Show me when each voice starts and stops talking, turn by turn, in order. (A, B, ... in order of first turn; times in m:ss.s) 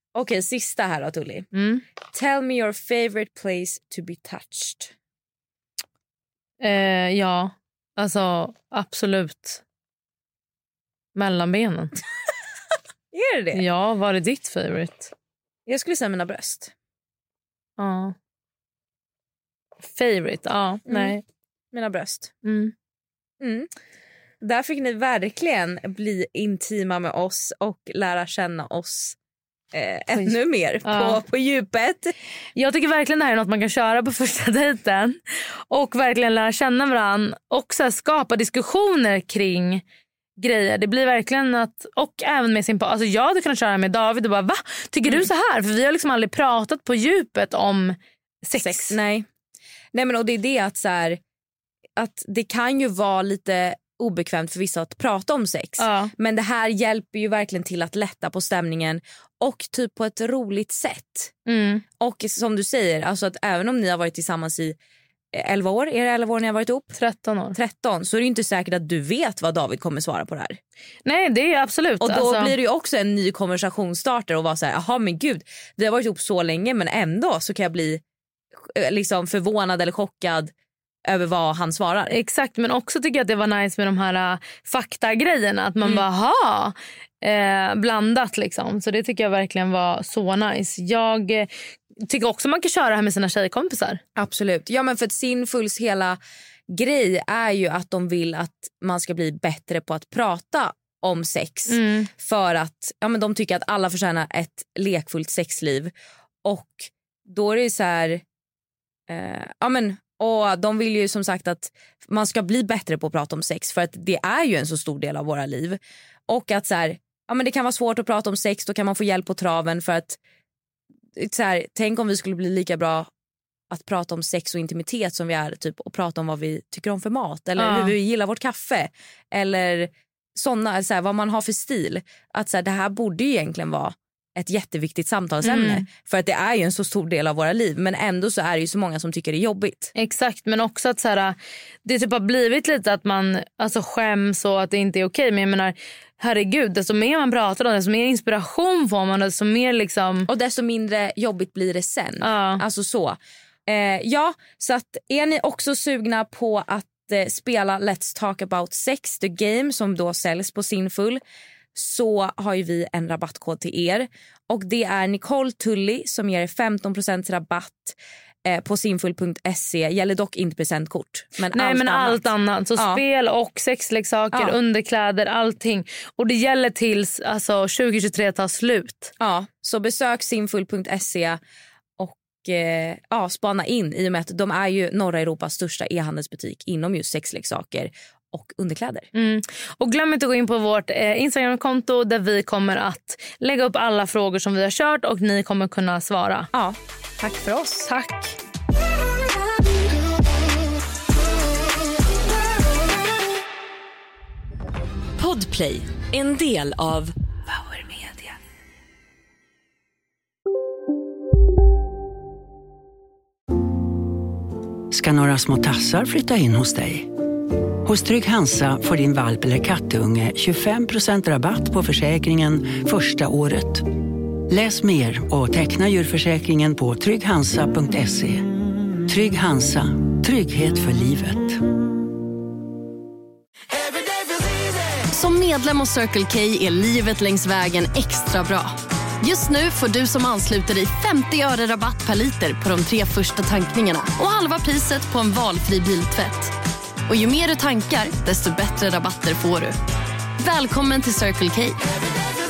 0:00.2-0:01.5 A
0:01.5-0:01.8 B
0:02.1-0:04.9 A
0:06.6-0:09.6 B
0:11.2-0:11.9 B
0:13.1-0:13.6 A
0:13.5-0:15.1 B
0:15.7-0:16.7 A
0:17.8-0:18.2 B
0:19.8-0:21.2 B
0:20.9-0:21.2 A
0:21.7-0:22.3 A
0:22.4-0:22.7 B
0:23.4-0:23.7 A
0:24.4-0:29.2 A
0:29.7-0:32.1 A
0:30.8-0:31.2 B
0:32.6-0:35.2 B
0:35.7-0:39.8 B
0:40.4-0:49.0 B
0:48.6-0:49.3 A
0:49.9-0:51.2 A
0:52.0-1:01.3 A
0:55.8-0:56.1 B
1:01.5-1:01.8 B
1:02.0-1:04.8 A
1:05.3-1:07.0 A
1:07.0-1:07.6 B
1:07.6-1:10.6 A
1:11.0-1:12.5 B
1:12.0-1:18.0 A
1:18.7-1:20.5 A
1:21.1-1:22.2 A
1:22.1-1:31.5 B
1:32.0-1:34.0 B
1:34.2-1:36.2 A
1:36.7-1:45.9 A
1:41.7-1:42.1 B
1:46.4-1:48.2 A
1:49.1-2:00.2 A
2:01.2-2:03.1 A
2:03.7-2:19.9 A
2:07.6-2:08.0 B
2:15.4-2:15.8 B
2:20.0-2:30.3 B
2:30.3-2:41.2 A
2:32.2-2:32.6 B
2:41.8-2:52.3 A
2:51.5-2:59.1 B
2:52.8-2:53.0 A
2:59.2-3:01.4 A
3:02.0-3:09.1 A
3:09.2-3:16.5 B
3:16.5-3:18.2 A
3:25.2-3:28.2 A
3:34.9-3:37.1 C
3:37.8-3:48.4 C
3:49.1-3:51.6 C
3:55.1-4:06.6 D
4:07.1-4:09.8 D
4:10.4-4:11.9 D